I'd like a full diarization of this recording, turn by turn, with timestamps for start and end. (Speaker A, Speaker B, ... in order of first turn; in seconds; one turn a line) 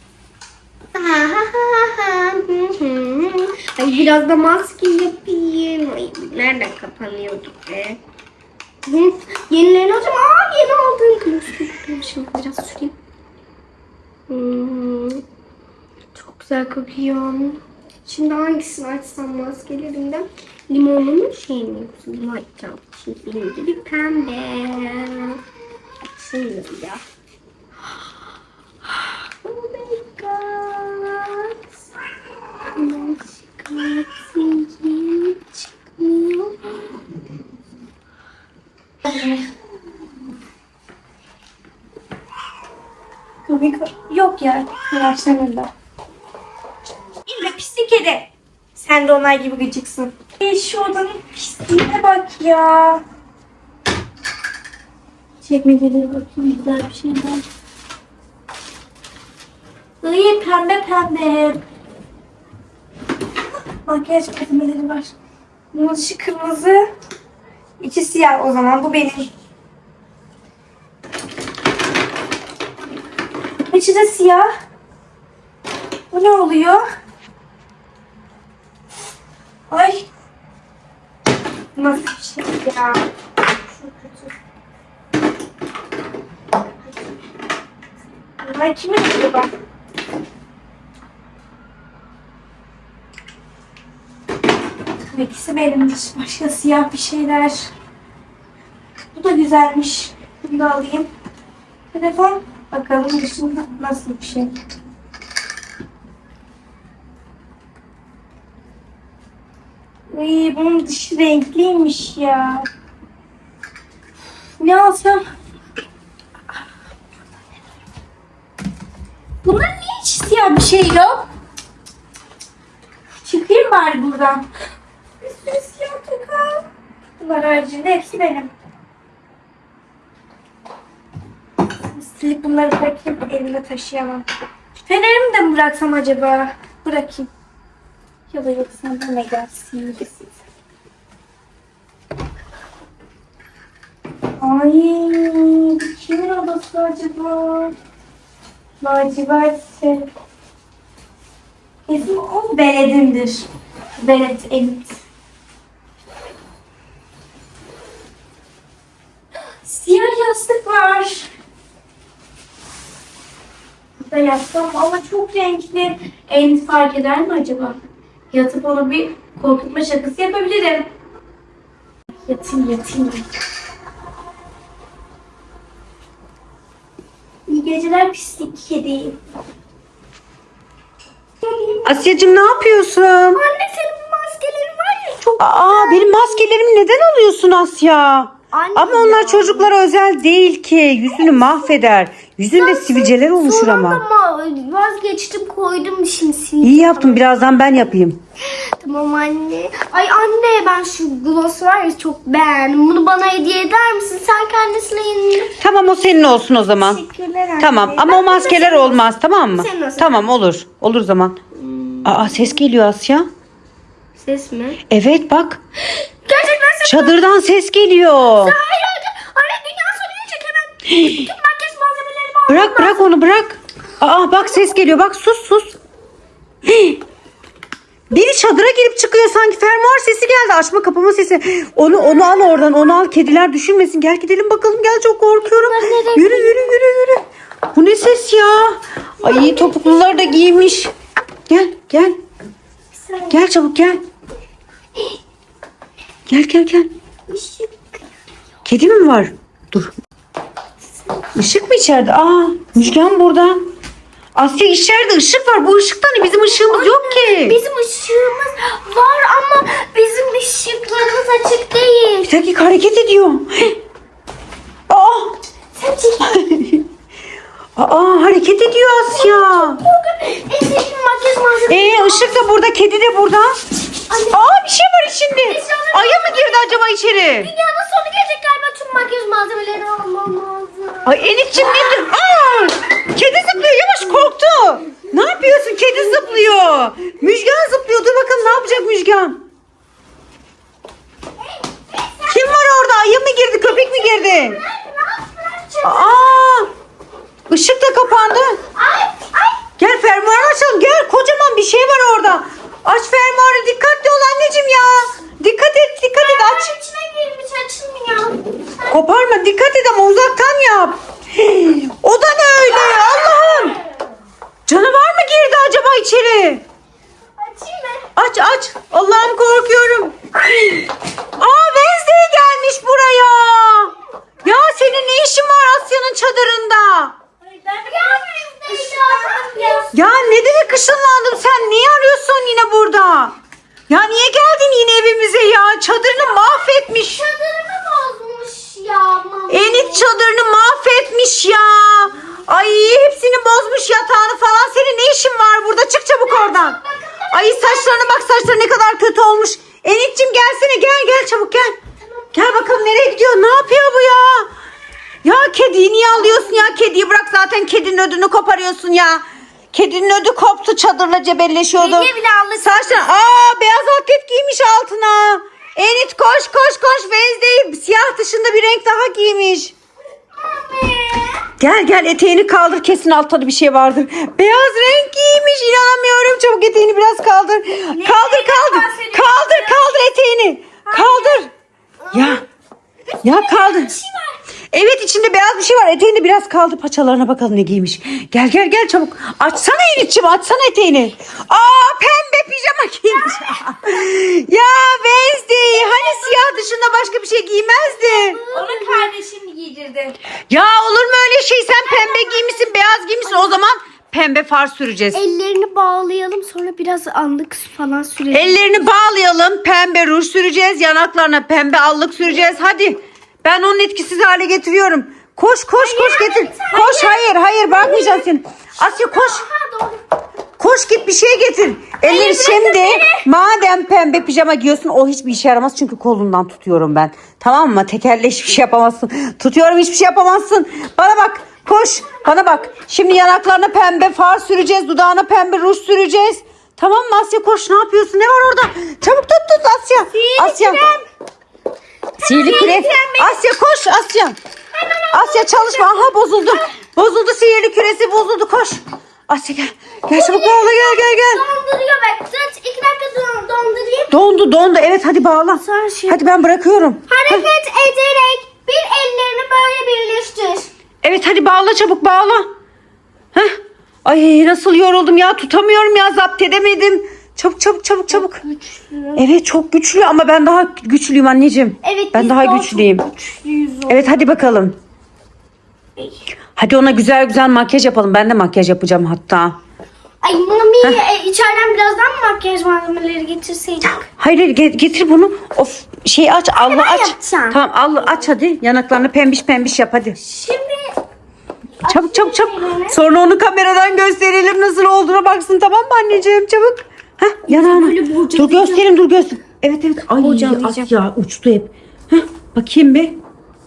Speaker A: 0.9-8.0
Speaker A: 8.8-12.9
Speaker A: 14.3-15.2
Speaker A: 16.1-25.4
Speaker A: 26.1-27.0
Speaker A: 29.4-31.5
Speaker A: 32.7-36.7
Speaker B: 39.0-39.4
Speaker B: 43.5-45.7
Speaker B: 47.3-53.0
Speaker B: 55.4-57.4
Speaker B: 60.0-61.6
Speaker B: 63.9-65.1
Speaker B: 65.7-66.9
Speaker B: 67.8-69.3
Speaker B: 73.7-74.5
Speaker B: 76.1-76.8
Speaker B: 79.7-80.0
Speaker B: 81.7-83.0
Speaker B: 83.7-84.3
Speaker B: 88.4-89.5
Speaker B: 95.1-97.7
Speaker B: 99.1-101.1
Speaker B: 101.9-104.5
Speaker B: 110.1-112.7
Speaker B: 114.6-115.2
Speaker B: 119.4-121.2
Speaker B: 123.2-124.5
Speaker B: 125.4-126.6
Speaker B: 127.2-128.5
Speaker B: 131.9-134.2
Speaker B: 134.8-137.3
Speaker B: 138.3-140.2
Speaker B: 144.4-147.7
Speaker B: 148.8-150.1
Speaker B: 151.9-153.5
Speaker B: 154.0-154.9
Speaker B: 159.7-161.3
Speaker B: 164.0-167.8
Speaker B: 168.3-170.9
Speaker B: 172.2-173.2
Speaker B: 177.5-179.2
Speaker A: 181.4-182.4
Speaker C: 181.8-183.4
Speaker A: 183.3-186.4
Speaker C: 185.3-194.0
Speaker A: 188.5-189.7
Speaker A: 191.2-191.6
Speaker A: 192.6-197.3
Speaker C: 196.6-198.2
Speaker A: 198.8-205.5
Speaker C: 205.6-207.0
Speaker A: 206.8-210.2
Speaker C: 207.6-211.3
Speaker A: 211.5-212.6
Speaker C: 212.0-213.3
Speaker A: 214.2-214.8
Speaker C: 214.9-215.6
Speaker A: 215.9-217.2
Speaker C: 216.8-218.5
Speaker A: 218.3-223.1
Speaker C: 220.9-221.3
Speaker C: 222.5-225.7
Speaker C: 226.7-227.0
Speaker C: 228.1-237.2
Speaker A: 235.5-236.7
Speaker C: 237.7-240.9
Speaker A: 239.2-240.7
Speaker C: 241.5-242.2
Speaker A: 242.9-243.4
Speaker C: 243.3-244.0
Speaker C: 246.3-246.9
Speaker A: 247.3-248.0
Speaker C: 248.7-249.9
Speaker C: 251.3-253.6
Speaker C: 254.3-257.6
Speaker A: 256.6-262.3
Speaker C: 262.3-263.8
Speaker C: 264.9-265.4
Speaker A: 265.8-266.2
Speaker C: 266.2-266.9
Speaker C: 267.8-269.8
Speaker A: 269.1-272.4
Speaker C: 271.7-273.5
Speaker A: 274.1-274.4
Speaker C: 274.3-277.5
Speaker A: 275.4-282.1
Speaker C: 281.0-289.4
Speaker A: 285.8-286.8
Speaker A: 288.4-288.8
Speaker A: 291.6-293.0
Speaker C: 292.3-294.6
Speaker A: 293.5-296.6
Speaker C: 295.8-296.7
Speaker C: 297.5-298.6
Speaker A: 298.7-299.6
Speaker C: 299.8-306.7
Speaker A: 306.2-308.7
Speaker C: 308.9-313.8
Speaker A: 312.8-313.9
Speaker C: 314.7-316.6
Speaker A: 317.4-318.1
Speaker C: 318.1-320.1
Speaker C: 321.4-327.1
Speaker B: 327.4-328.1
Speaker A: 327.8-329.9
Speaker B: 328.7-329.8
Speaker C: 329.9-333.3
Speaker C: 333.9-337.2
Speaker A: 336.9-340.1
Speaker C: 339.5-346.8
Speaker A: 346.3-348.3
Speaker C: 347.3-351.7
Speaker A: 352.0-352.8
Speaker C: 352.3-354.4
Speaker C: 355.2-369.7
Speaker A: 356.1-356.8
Speaker A: 361.8-363.1
Speaker A: 370.4-371.4
Speaker C: 371.6-381.5
Speaker B: 377.9-379.8
Speaker B: 380.9-381.4
Speaker A: 382.0-382.4
Speaker C: 382.1-382.4
Speaker C: 383.2-383.9
Speaker A: 383.3-384.3
Speaker C: 384.7-398.4
Speaker A: 395.6-397.0
Speaker A: 397.9-399.1
Speaker B: 398.5-400.2
Speaker C: 400.5-405.2
Speaker A: 401.8-403.6
Speaker A: 405.1-408.9
Speaker C: 408.3-419.4
Speaker A: 415.8-418.2
Speaker A: 418.8-420.0
Speaker C: 420.6-440.8
Speaker A: 422.0-423.2
Speaker A: 440.1-441.0
Speaker A: 442.2-443.4
Speaker C: 442.2-444.3
Speaker A: 444.7-446.6
Speaker C: 445.1-451.4
Speaker A: 450.1-454.2
Speaker C: 454.1-457.5
Speaker A: 455.6-456.3
Speaker A: 457.1-460.7
Speaker C: 461.0-462.4
Speaker C: 464.0-468.4
Speaker A: 468.1-469.2
Speaker C: 469.1-473.0
Speaker A: 471.8-474.2
Speaker C: 473.9-474.8
Speaker C: 476.6-479.6
Speaker A: 480.2-484.0
Speaker C: 483.8-490.2
Speaker A: 486.5-487.6
Speaker A: 490.2-490.9
Speaker A: 491.8-493.0
Speaker C: 491.9-503.2
Speaker A: 497.5-498.9
Speaker A: 500.2-500.9